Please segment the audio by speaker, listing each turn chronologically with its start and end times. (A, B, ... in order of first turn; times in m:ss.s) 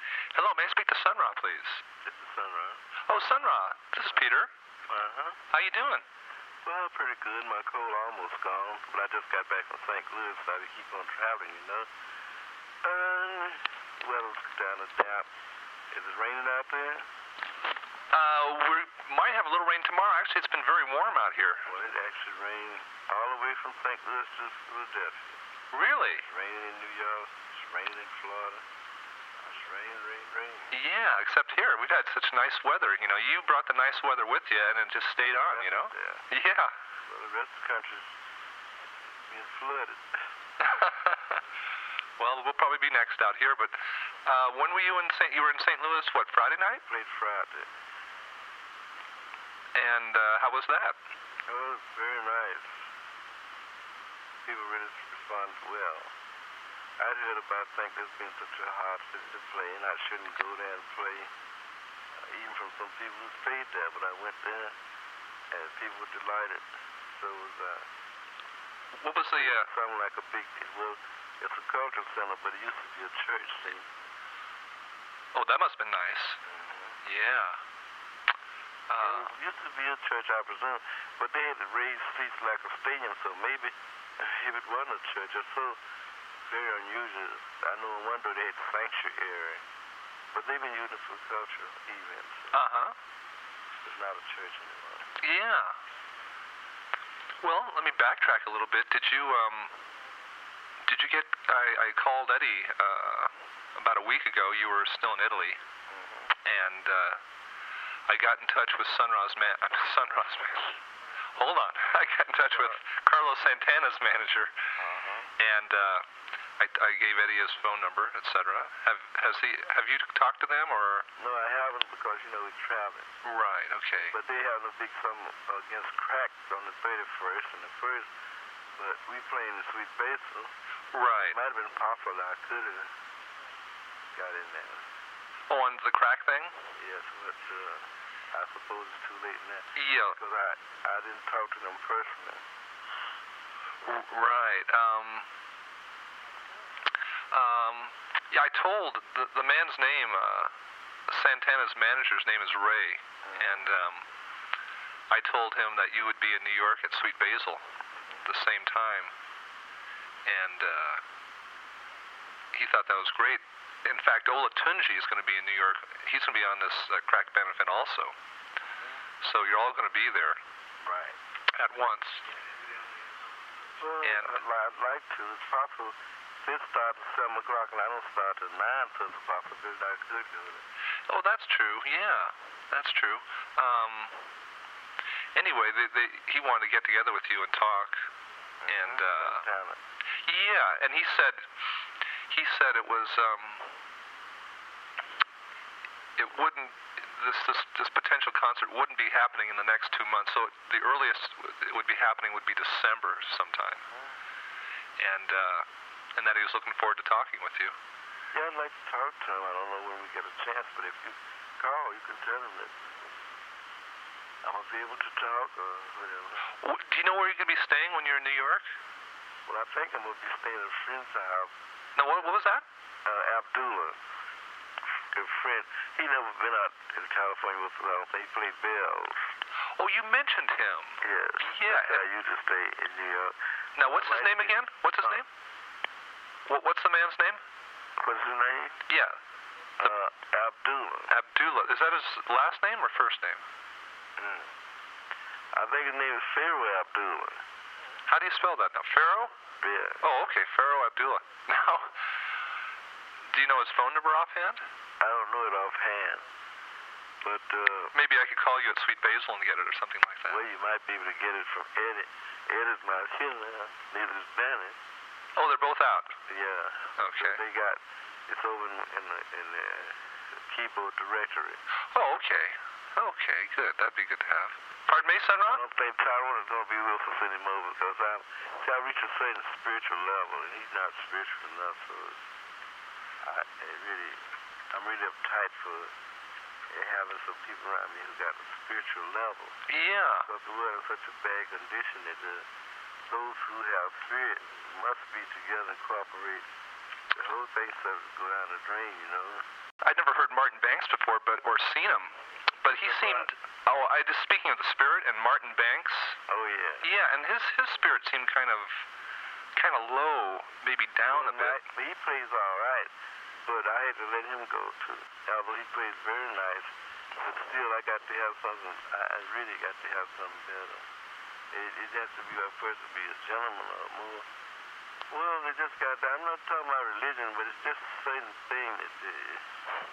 0:00.3-0:01.8 A
0:02.0-0:02.8 B
0:03.1-0:04.5 A
0:04.9-0:05.4 B
0:05.5-0:06.0 A
0:06.6-0:11.9 B
0:12.8-0:15.3 B
0:15.9-0:17.0 B
0:18.1-0:21.7 A
0:21.7-0:25.4 B
0:25.7-0:26.3 A
0:26.2-0:28.6 B
0:29.4-0:30.7 B
0:30.7-0:36.7 A
0:35.5-0:36.3 B
0:37.0-0:38.1 B
0:39.3-0:40.1 B
0:40.6-0:41.4 A
0:42.2-0:43.7 A
0:44.2-0:46.8 A
0:46.9-0:47.7 B
0:49.7-0:51.0 A
0:51.5-0:52.7 B
0:54.4-0:56.1 B
0:57.0-1:01.3 B
1:02.2-1:04.8 B
1:05.5-1:07.9 B
1:09.0-1:09.7 A
1:09.3-1:13.9 B
1:15.3-1:16.4 A
1:16.4-1:17.0 B
1:17.0-1:17.6 A
1:18.9-1:19.3 A
1:19.0-1:25.8 B
1:26.5-1:29.6 B
1:30.3-1:32.6 B
1:32.5-1:32.9 A
1:33.8-1:35.2 B
1:35.2-1:35.8 A
1:37.4-1:39.7 A
1:40.8-1:45.6 A
1:45.9-1:46.3 B
1:46.4-1:47.2 A
1:48.1-1:50.8 A
1:51.4-1:54.5 A
1:54.8-1:55.3 B
1:55.4-1:56.0 A
1:56.6-2:01.0 A
2:01.2-2:03.2 B
2:03.2-2:04.1 A
2:04.1-2:08.1 B
2:08.8-2:10.5 B
2:10.9-2:11.4 A
2:11.2-2:12.9 B
2:14.1-2:14.8 B
2:15.5-2:16.5 A
2:16.8-2:22.4 B
2:19.8-2:20.2 A
2:23.8-2:25.2 A
2:27.3-2:30.5 A
2:31.1-2:34.0 A
2:33.2-2:33.6 B
2:35.1-2:37.6 A
2:38.2-2:39.1 A
2:40.2-2:41.0 A
2:42.5-2:48.1 A
2:49.2-2:50.4 A
2:50.8-2:51.2 B
2:51.5-2:52.2 A
2:53.8-3:00.6 B
2:54.0-2:54.4 A
3:01.1-3:04.1 A
3:05.4-3:08.0 A
3:08.6-3:09.8 B
3:08.7-3:09.4 A
3:10.2-3:11.4 A
3:12.3-3:13.7 A
3:16.2-3:23.8 A
3:25.0-3:27.7 A
3:28.3-3:32.7 B
3:34.4-3:36.5 B
3:36.6-3:38.7 A
3:39.5-3:41.5 B
3:42.0-3:42.6 A
3:43.0-3:44.0 B
3:45.1-3:49.3 B
3:49.8-3:52.0 A
3:51.0-3:55.2 B
3:53.8-3:55.3 A
3:56.5-3:57.4 A
3:58.0-3:58.8 B
3:58.9-3:59.2 A
3:59.8-4:01.1 B
4:01.1-4:03.4 A
4:04.2-4:04.5 B
4:05.5-4:07.4 B
4:08.1-4:09.3 A
4:09.6-4:10.0 B
4:10.0-4:12.0 A
4:13.3-4:14.6 A
4:15.0-4:16.2 B
4:17.2-4:17.9 B
4:17.9-4:20.4 A
4:20.3-4:24.8 B
4:25.4-4:26.1 A
4:26.3-4:31.6 B
4:27.0-4:27.4 A
4:31.9-4:35.6 A
4:35.5-4:42.2 B
4:43.2-4:45.9 B
4:46.7-4:49.6 B
4:49.7-4:50.3 A
4:50.2-4:52.5 B
4:53.1-4:56.4 B
4:57.1-4:59.4 B
4:59.8-5:06.2 A
5:02.8-5:03.3 B
5:06.3-5:06.9 B
5:06.8-5:08.8 A
5:09.6-5:11.6 A
5:11.1-5:12.9 B
5:13.4-5:20.8 B
5:21.5-5:24.3 B
5:25.1-5:29.5 B